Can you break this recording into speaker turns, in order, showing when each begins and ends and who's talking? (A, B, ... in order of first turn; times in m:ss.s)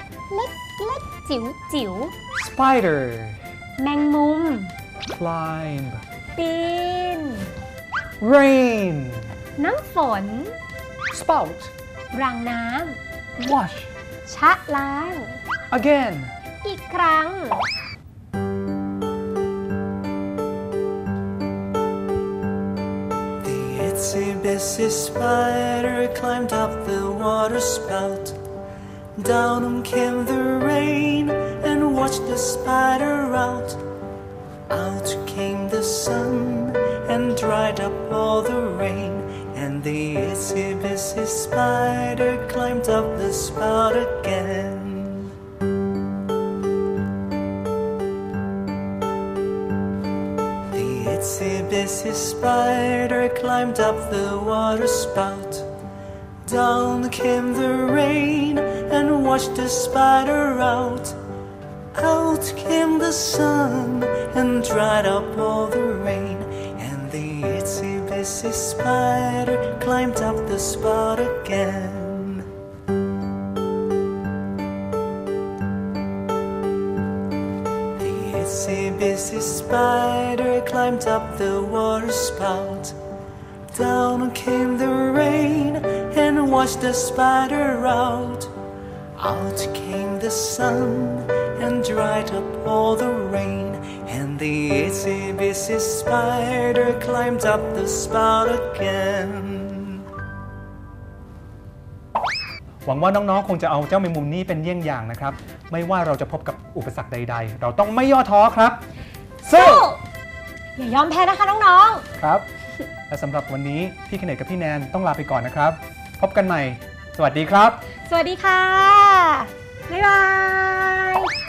0:00.3-0:02.1 A
0:02.3-0:03.4 B
0:03.8-0:04.7 A
0:05.1-0:06.0 B
0:06.4-0:07.5 A
0:08.2-0:09.3 B
0:09.6-0:10.6 A
0:11.1-0:11.7 B
0:12.1-0:13.0 A
0:13.4-0:13.9 B
0:14.3-0:15.4 A
0:15.7-0:16.3 B
0:16.6-0:17.7 A
0:23.4-0:28.4 C
0:29.2-0:33.8 C
0:34.7-0:45.3 C
0:50.7-0:55.7 C
0:56.4-1:01.2 C
1:02.0-1:12.4 C
1:18.0-1:23.0 C
1:23.7-1:28.5 C
1:29.2-1:40.0 C
1:42.8-1:48.8 B
1:49.4-1:50.0 A
1:49.4-1:49.9 B
1:50.8-1:52.0 A
1:52.2-1:52.4 B
1:53.1-1:57.8 B
1:58.0-2:01.3 A